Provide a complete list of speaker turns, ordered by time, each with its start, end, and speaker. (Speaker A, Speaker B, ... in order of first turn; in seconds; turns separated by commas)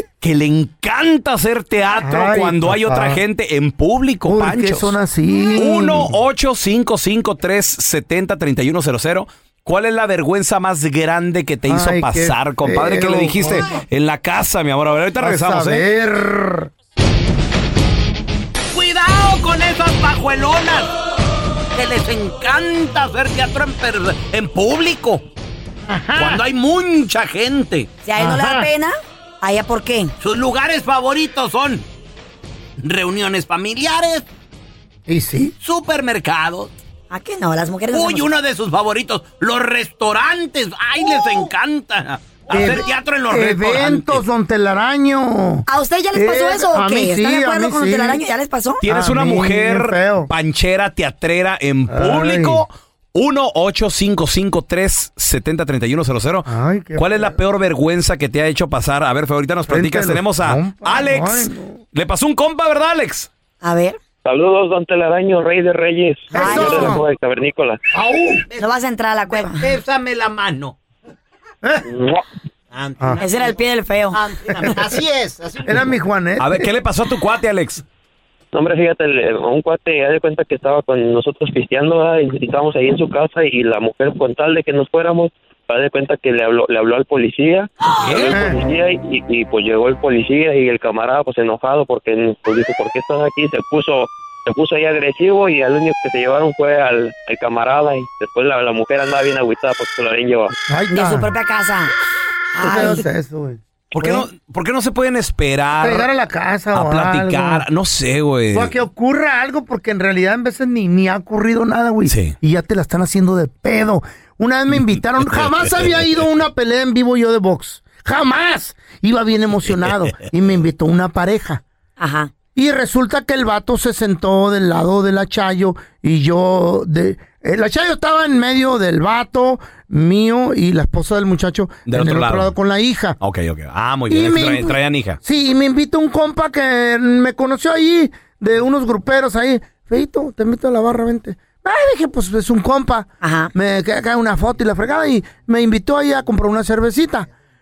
Speaker A: 0.2-5.0, Speaker B: 2.0-3.2, Speaker B: 4.3-6.1, Speaker A: 5.6-15.8, Speaker B: 11.7-13.7, Speaker B: 15.2-16.7, Speaker C: 18.7-20.9, Speaker C: 21.7-25.3, Speaker B: 25.9-26.4, Speaker C: 26.2-27.9, Speaker D: 28.0-30.1, Speaker B: 28.2-28.7, Speaker C: 30.2-31.9, Speaker C: 32.8-34.3, Speaker B: 35.1-35.5, Speaker C: 35.6-36.7, Speaker D: 37.1-38.3, Speaker C: 37.9-44.2, Speaker B: 42.5-48.2, Speaker D: 45.7-48.8, Speaker A: 48.8-63.3, Speaker B: 48.9-50.3, Speaker B: 51.9-52.6, Speaker B: 56.5-57.4, Speaker B: 59.7-61.8, Speaker D: 63.6-64.0, Speaker E: 64.2-67.8, Speaker B: 66.3-67.0, Speaker D: 66.3-67.0, Speaker B: 67.9-68.4, Speaker D: 68.6-69.6, Speaker C: 69.3-70.8, Speaker E: 71.9-72.2, Speaker C: 72.7-73.6, Speaker D: 73.2-74.2, Speaker C: 74.1-75.8, Speaker B: 75.7-76.7, Speaker A: 76.4-77.8, Speaker E: 78.5-100.5, Speaker A: 88.0-88.4, Speaker B: 88.3-88.6, Speaker B: 100.7-101.3, Speaker D: 100.9-101.9, Speaker D: 102.5-103.0, Speaker B: 102.6-104.3, Speaker A: 103.9-106.1, Speaker B: 105.8-107.7, Speaker A: 106.7-108.7, Speaker B: 108.5-121.6, Speaker A: 112.1-112.3, Speaker A: 115.3-115.9, Speaker D: 122.0-122.3, Speaker B: 122.5-133.2, Speaker A: 131.9-132.5, Speaker A: 133.2-135.2, Speaker B: 134.1-147.3, Speaker D: 143.2-143.5